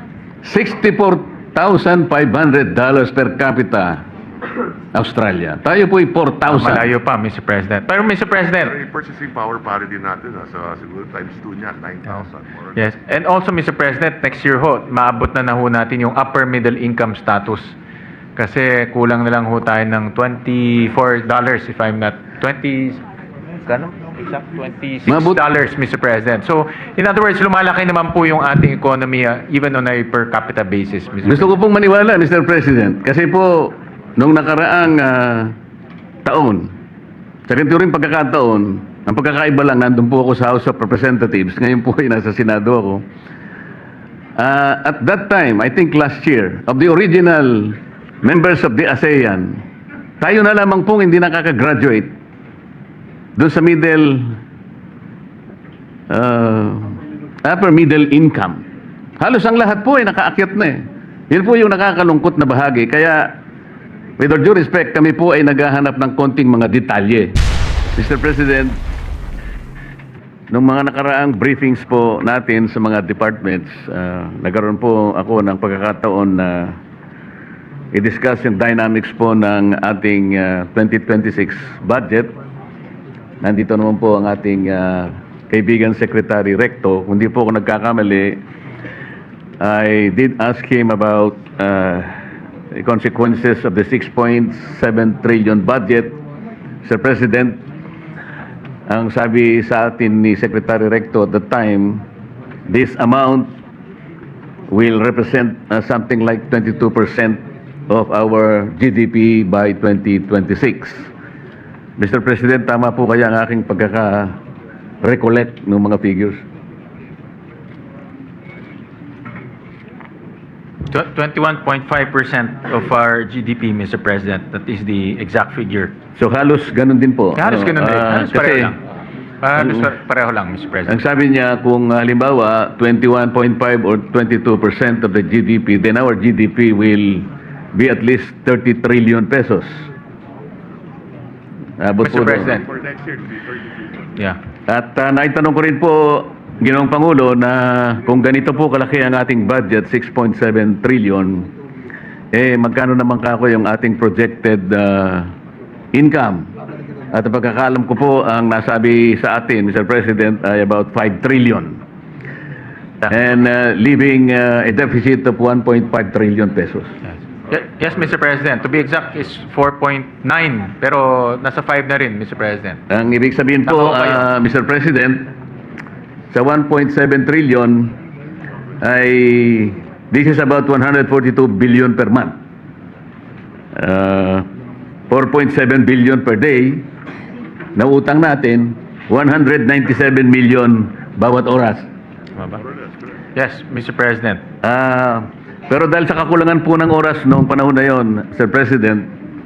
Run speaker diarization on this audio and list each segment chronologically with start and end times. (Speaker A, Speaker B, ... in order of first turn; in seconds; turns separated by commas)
Speaker A: 0.4-4.0, Speaker A: 4.9-6.9, Speaker B: 6.5-8.8, Speaker C: 8.6-12.8, Speaker B: 12.8-17.8, Speaker B: 18.4-23.0, Speaker B: 23.7-31.5, Speaker A: 25.1-25.4, Speaker A: 31.2-35.5, Speaker A: 36.2-36.7, Speaker A: 37.5-43.0, Speaker A: 44.4-49.6, Speaker A: 50.2-52.1, Speaker A: 53.4-54.4, Speaker A: 56.1-58.6, Speaker A: 59.2-63.4, Speaker A: 64.2-67.4, Speaker A: 67.9-68.8, Speaker A: 70.5-76.8, Speaker A: 77.9-82.3, Speaker A: 83.4-88.4, Speaker A: 89.6-92.2, Speaker A: 92.7-96.2, Speaker A: 96.8-97.6, Speaker A: 98.9-102.0, Speaker A: 102.7-103.5, Speaker A: 104.7-111.1, Speaker A: 112.0-114.4, Speaker A: 115.0-116.4, Speaker B: 120.9-125.9, Speaker A: 126.2-128.8, Speaker B: 127.4-128.8, Speaker B: 129.4-131.0, Speaker A: 129.6-129.9, Speaker A: 130.9-139.9, Speaker A: 141.8-142.6, Speaker B: 142.0-142.7, Speaker C: 142.5-144.1, Speaker A: 144.7-151.5, Speaker A: 152.3-155.3, Speaker A: 155.9-156.5, Speaker A: 157.1-161.8, Speaker A: 163.1-166.9, Speaker B: 167.5-172.8, Speaker A: 172.9-175.3, Speaker B: 173.7-174.2, Speaker A: 176.3-178.0, Speaker A: 178.8-182.3, Speaker A: 183.8-184.5, Speaker A: 185.1-186.9, Speaker A: 187.8-191.9, Speaker B: 193.3-194.4, Speaker A: 194.6-199.1